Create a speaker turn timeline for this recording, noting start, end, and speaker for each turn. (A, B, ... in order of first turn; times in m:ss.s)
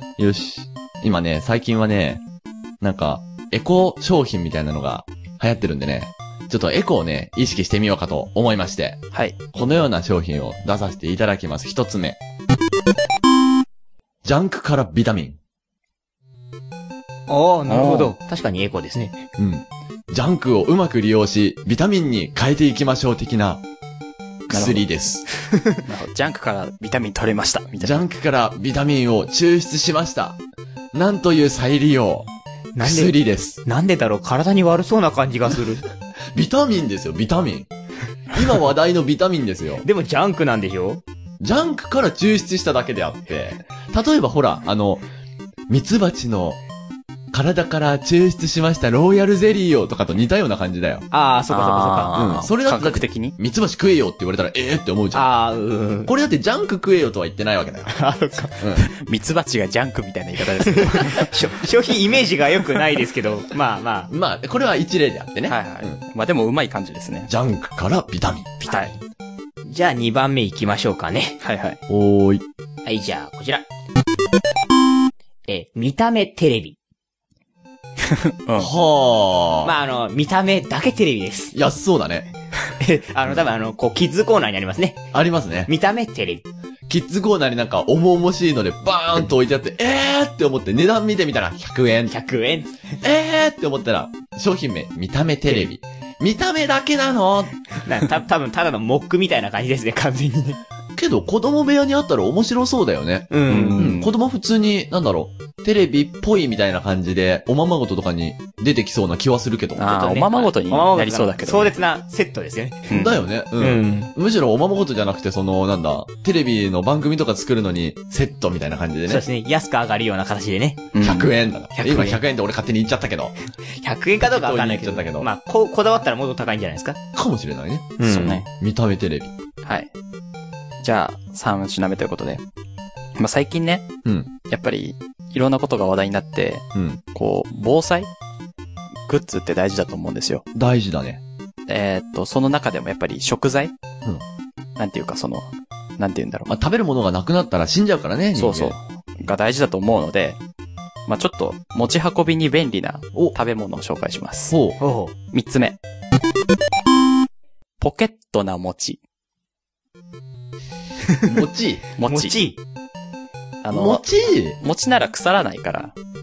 0:00.2-0:02.2 A
0:02.8-0:12.2 A
0:09.1-0:09.4 B
0:14.2-0:15.4 A
0:17.3-0:19.2 C
0:17.7-0:18.2 B
0:19.4-0:23.6 A
0:24.5-0:25.2 A
0:24.5-0:24.9 B
0:25.4-0:25.8 C
0:25.8-0:28.0 B
0:27.8-0:30.4 A
0:30.9-0:32.3 A
0:32.8-0:35.8 C
0:32.8-0:33.6 A
0:36.3-0:37.7 A
0:38.3-0:39.8 A
0:39.8-0:41.0 C
0:41.4-0:45.0 A
0:45.7-0:46.6 A
0:47.3-0:51.0 A
0:51.1-0:52.2 C
0:51.5-0:53.4 B
0:52.2-0:55.3 A
0:55.1-0:56.1 C
0:56.1-0:57.9 A
0:57.9-0:58.6 C
0:58.6-0:58.9 A
0:58.9-1:01.3 B
1:00.7-1:04.1 C
1:04.1-1:06.0 A
1:05.5-1:07.3 B
1:07.3-1:08.6 A
1:08.6-1:09.0 C
1:08.7-1:08.9 B
1:09.7-1:11.4 C
1:11.4-1:11.8 B
1:11.9-1:12.4 A
1:12.8-1:13.7 C
1:15.5-1:16.8 C
1:18.0-1:18.7 B
1:18.6-1:19.7 A
1:19.6-1:21.6 C
1:21.5-1:22.3 A
1:22.8-1:25.0 C
1:25.1-1:25.7 A
1:25.7-1:26.5 C
1:26.9-1:32.2 A
1:32.1-1:33.0 C
1:33.0-1:37.6 A
1:37.8-1:40.6 C
1:41.0-1:49.9 A
1:43.3-1:43.9 C
1:43.5-1:44.1 B
1:49.8-1:51.8 B
1:49.9-1:53.0 C
1:52.9-1:53.2 B
1:52.9-1:59.2 A
1:53.6-1:54.1 C
1:59.1-2:00.9 C
2:00.9-2:01.3 B
2:01.0-2:03.4 A
2:01.8-2:02.2 C
2:03.8-2:07.0 C
2:04.3-2:05.3 A
2:07.1-2:09.3 A
2:08.0-2:08.4 C
2:08.0-2:08.5 B
2:09.6-2:09.9 B
2:10.8-2:12.4 B
2:13.2-2:13.9 B
2:14.0-2:14.3 A
2:14.5-2:18.1 B
2:19.1-2:20.4 B
2:20.5-2:21.2 A
2:21.7-2:23.7 B
2:24.8-2:26.5 B
2:26.5-2:28.8 A
2:28.4-2:30.4 B
2:31.1-2:34.5 B
2:34.5-2:34.8 A
2:34.8-2:35.2 C
2:35.3-2:35.8 B
2:37.8-2:39.0 B
2:41.0-2:41.3 C
2:41.3-2:41.8 A
2:42.0-2:42.4 B
2:42.0-2:42.6 C
2:43.6-2:44.0 B
2:43.7-2:44.6 A
2:44.6-2:45.9 B